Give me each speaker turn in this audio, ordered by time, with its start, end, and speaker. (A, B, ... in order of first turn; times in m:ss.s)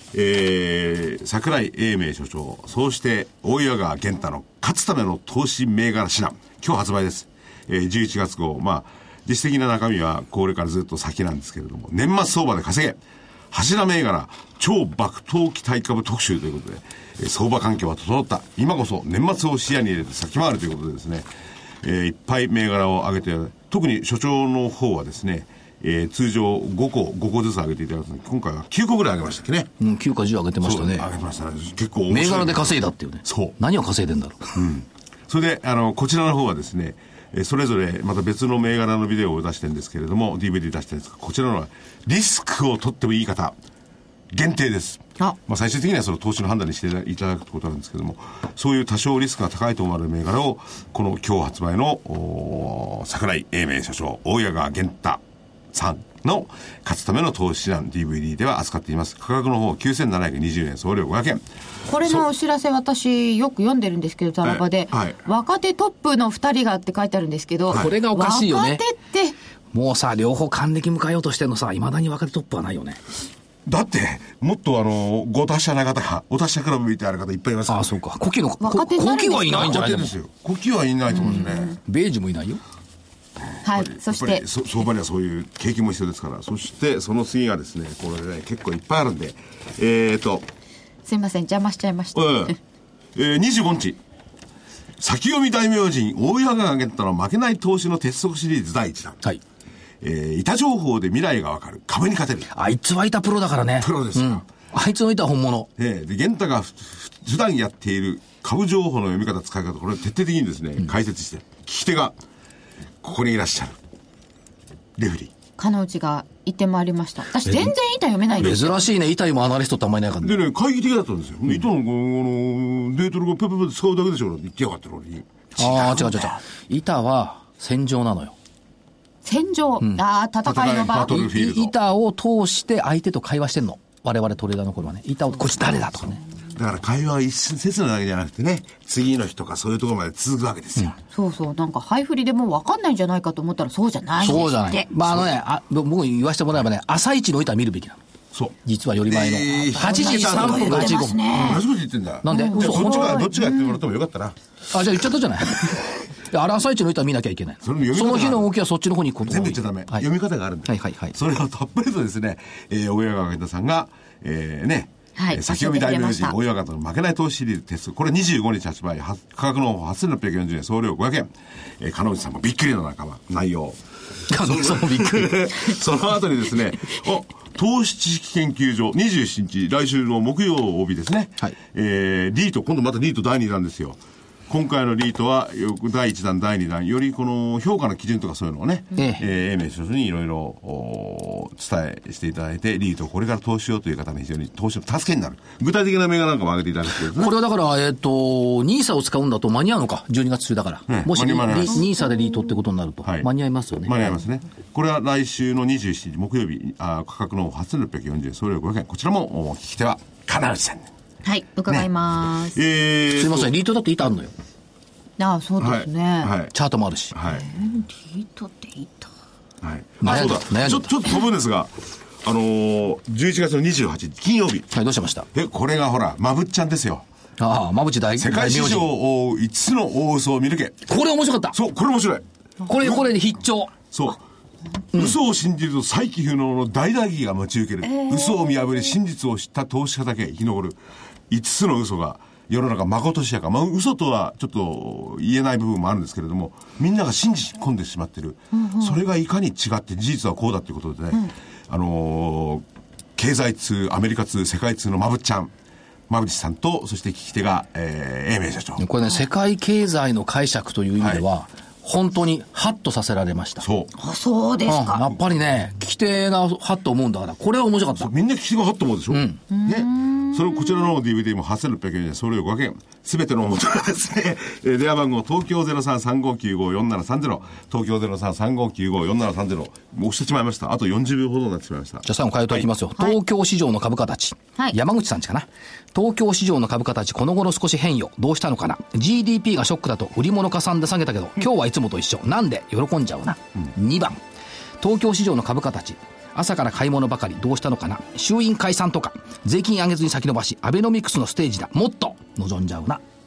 0:00.1-0:13.0 A
0:13.5-0:21.3 A
0:21.8-0:29.7 A
0:29.8-0:31.1 B
0:30.6-0:33.6 A
0:32.1-0:34.6 B
0:34.6-0:43.6 A
0:44.3-0:55.2 A
0:55.7-1:01.4 A
1:01.8-1:09.4 C
1:02.0-1:02.3 A
1:04.4-1:05.2 A
1:07.7-1:08.0 A
1:07.7-1:08.8 B
1:09.7-1:13.0 B
1:13.7-1:17.9 A
1:17.7-1:20.1 B
1:18.6-1:19.6 C
1:19.5-1:21.8 A
1:21.1-1:21.7 C
1:21.2-1:22.6 B
1:23.5-1:30.5 A
1:23.6-1:24.4 C
1:31.0-1:32.6 C
1:32.2-1:32.6 A
1:33.2-1:34.0 A
1:35.0-1:39.2 A
1:40.0-1:42.5 A
1:42.5-1:45.7 B
1:43.8-1:44.4 A
1:45.8-1:52.2 A
1:53.0-1:53.8 A
1:55.0-1:55.3 A
1:55.6-1:58.9 C
1:57.4-1:57.8 B
1:58.4-2:00.4 B
2:00.2-2:06.4 A
2:05.6-2:08.4 B
2:09.2-2:11.2 C
2:10.4-2:11.8 A
2:11.1-2:16.2 B
2:16.5-2:21.0 A
2:21.1-2:24.9 C
2:24.2-2:28.0 B
2:28.3-2:34.4 A
2:28.6-2:31.6 B
2:29.8-2:31.6 C
2:32.2-2:33.2 B
2:32.3-2:33.8 C
2:34.7-2:40.1 B
2:37.6-2:38.5 A
2:39.2-2:53.8 A
2:40.7-2:41.2 B
2:45.2-2:46.4 C
2:54.3-2:55.8 B
2:54.4-3:04.0 A
3:04.5-3:17.4 A
3:09.0-3:09.2 B
3:17.1-3:24.2 B
3:20.9-3:21.8 A
3:21.7-3:22.6 C
3:23.0-3:23.3 A
3:23.8-3:30.9 A
3:31.2-3:32.6 C
3:32.5-3:33.5 A
3:33.2-3:34.3 B
3:35.2-3:36.3 C
3:35.6-3:36.5 A
3:36.5-3:37.2 B
3:37.1-3:37.5 A
3:37.3-3:39.1 C
3:39.6-3:44.7 A
3:40.0-3:40.9 B
3:44.7-3:45.3 B
3:45.3-3:47.0 A
3:47.4-3:48.9 B
3:48.2-3:50.9 A
3:50.9-3:51.6 B
3:51.5-3:53.1 A
3:52.6-3:53.8 B
3:53.9-3:54.2 A
3:54.9-3:55.2 B
3:54.9-4:00.8 A
3:58.0-3:58.8 C
4:01.3-4:12.6 A
4:08.5-4:09.0 C
4:13.2-4:15.5 A
4:16.1-4:18.8 A
4:18.8-4:23.7 B
4:21.0-4:21.2 A
4:23.6-4:23.9 A
4:24.0-4:25.1 C
4:24.7-4:28.1 B
4:28.0-4:42.6 A
4:29.1-4:29.4 B
4:29.5-4:30.9 C
4:42.0-4:54.2 B
4:54.8-5:03.0 B